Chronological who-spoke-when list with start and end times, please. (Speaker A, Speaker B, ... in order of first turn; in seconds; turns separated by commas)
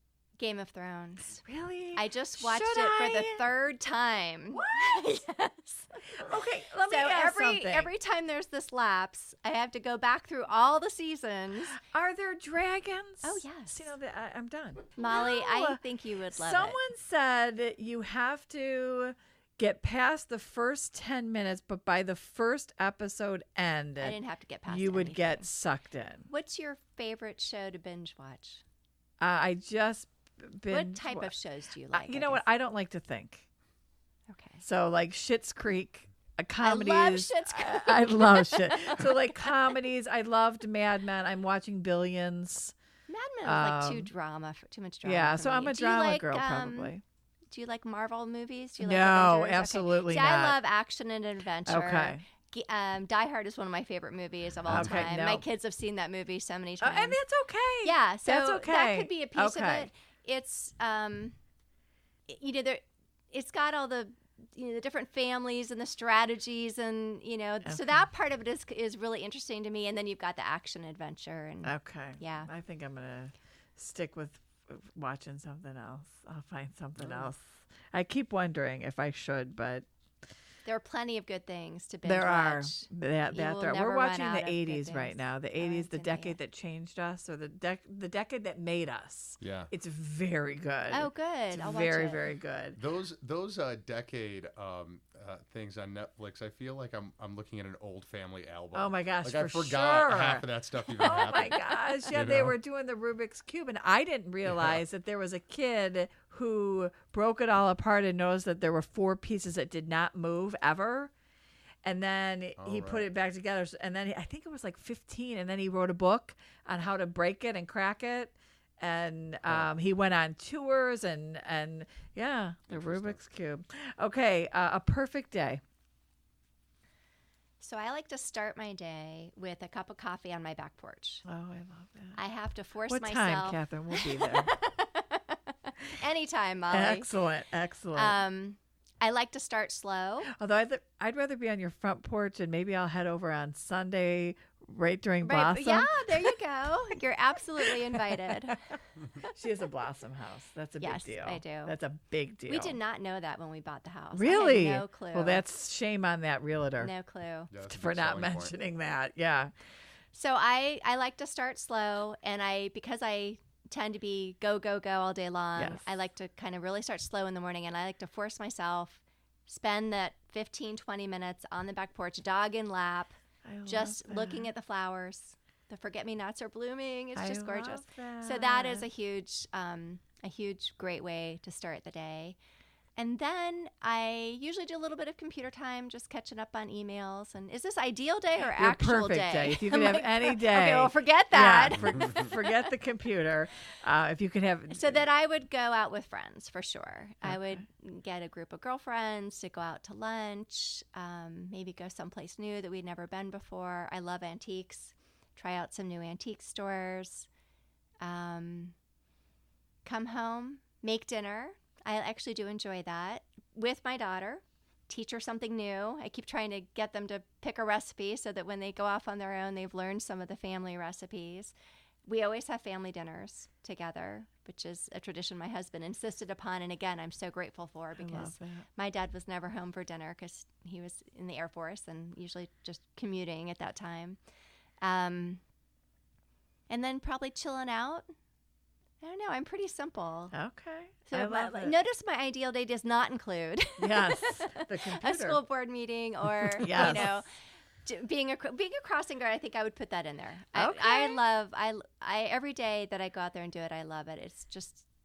Speaker A: 0.4-11.8, Speaker B: 1.4-3.5, Speaker B: 4.5-5.2, Speaker B: 6.2-7.9, Speaker B: 11.7-26.3, Speaker A: 13.2-13.9, Speaker A: 15.0-16.8, Speaker A: 24.0-25.5, Speaker A: 26.3-28.6, Speaker B: 29.2-31.3, Speaker A: 30.7-32.4, Speaker B: 31.9-33.5, Speaker A: 34.3-34.6, Speaker B: 34.6-42.8, Speaker A: 36.6-39.5, Speaker A: 43.1-46.9, Speaker B: 43.4-44.1, Speaker B: 45.0-47.0, Speaker A: 47.5-57.2, Speaker B: 48.8-50.6, Speaker B: 51.7-52.2, Speaker C: 54.7-55.0, Speaker B: 54.7-55.5, Speaker B: 56.8-59.9, Speaker A: 57.8-61.4, Speaker A: 62.3-72.5, Speaker B: 67.7-68.1, Speaker B: 71.6-79.9, Speaker C: 77.0-77.3, Speaker A: 80.7-86.4, Speaker B: 82.0-92.8, Speaker C: 89.4-89.7, Speaker A: 90.9-92.2, Speaker C: 92.8-102.6, Speaker B: 98.7-100.5, Speaker B: 101.0-111.1, Speaker A: 101.3-101.6, Speaker C: 104.5-104.8, Speaker B: 111.8-125.6, Speaker C: 112.6-113.1, Speaker C: 122.7-123.2, Speaker A: 127.6-131.2, Speaker B: 131.2-132.2, Speaker A: 132.2-137.1, Speaker B: 132.9-134.5, Speaker B: 136.7-138.2, Speaker A: 137.9-140.3, Speaker B: 140.2-146.4, Speaker A: 145.2-148.7, Speaker B: 147.6-148.5, Speaker B: 149.2-152.8, Speaker A: 150.8-151.8, Speaker A: 152.5-155.4, Speaker B: 154.1-156.9, Speaker A: 156.8-157.5, Speaker C: 157.5-158.6, Speaker B: 157.7-159.5, Speaker A: 160.1-182.4, Speaker B: 165.6-165.9, Speaker B: 173.4-174.5, Speaker B: 177.2-178.9, Speaker A: 183.0-192.7, Speaker B: 188.4-195.1, Speaker A: 194.7-207.3, Speaker B: 197.2-197.5, Speaker A: 208.0-208.8, Speaker A: 209.8-221.6, Speaker A: 222.1-234.2, Speaker B: 228.0-228.7, Speaker A: 234.8-235.4, Speaker A: 236.7-238.1, Speaker A: 239.0-240.3, Speaker B: 240.3-241.8, Speaker A: 241.1-247.3, Speaker B: 243.8-245.4, Speaker B: 246.4-247.2, Speaker A: 247.8-254.9, Speaker B: 250.6-251.2